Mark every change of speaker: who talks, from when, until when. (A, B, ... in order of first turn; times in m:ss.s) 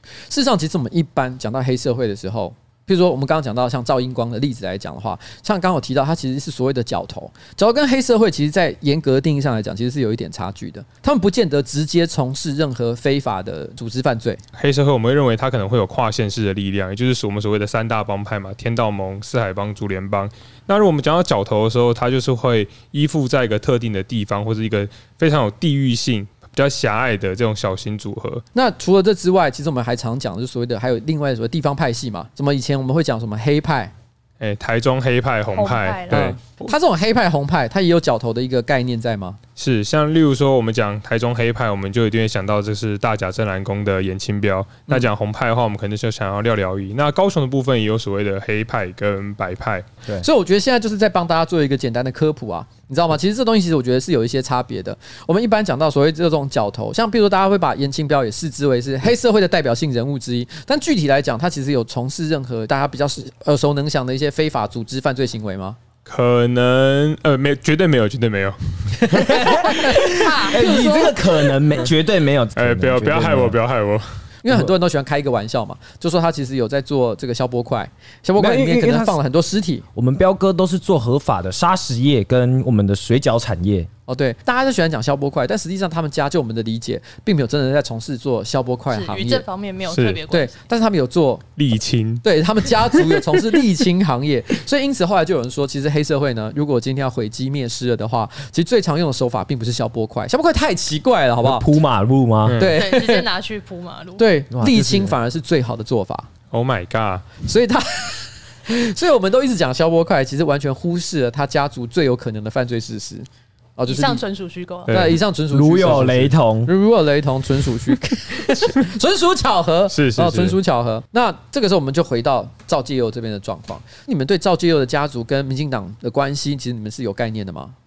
0:00.3-0:14.4 A
0:14.6-0:28.4 B
0:28.5-0:33.9 A
0:34.4-0:36.7 B
0:35.5-0:36.2 C
0:36.1-0:39.4 A
0:39.6-0:49.9 B
0:50.2-1:05.8 A
1:06.1-1:09.9 B
1:09.0-1:11.3 A
1:09.3-1:13.6 D
1:12.6-1:14.1 B
1:14.4-1:19.9 A
1:14.5-1:14.7 D
1:18.4-1:19.2 D
1:19.9-1:23.9 D
1:24.1-1:29.4 A
1:28.9-1:30.6 C
1:29.9-1:30.2 B
1:30.3-1:31.4 A
1:31.6-1:33.4 B
1:32.2-1:41.7 A
1:41.4-1:42.7 D
1:42.4-1:42.8 B
1:42.6-1:43.2 A
1:42.8-1:44.2 C
1:44.2-1:46.3 A
1:44.5-1:45.1 D
1:46.5-1:47.3 B
1:47.4-1:54.2 A
1:53.9-1:55.0 C
1:54.9-1:55.2 B
1:54.9-2:07.8 A
1:55.5-1:56.7 D
1:59.9-2:00.6 B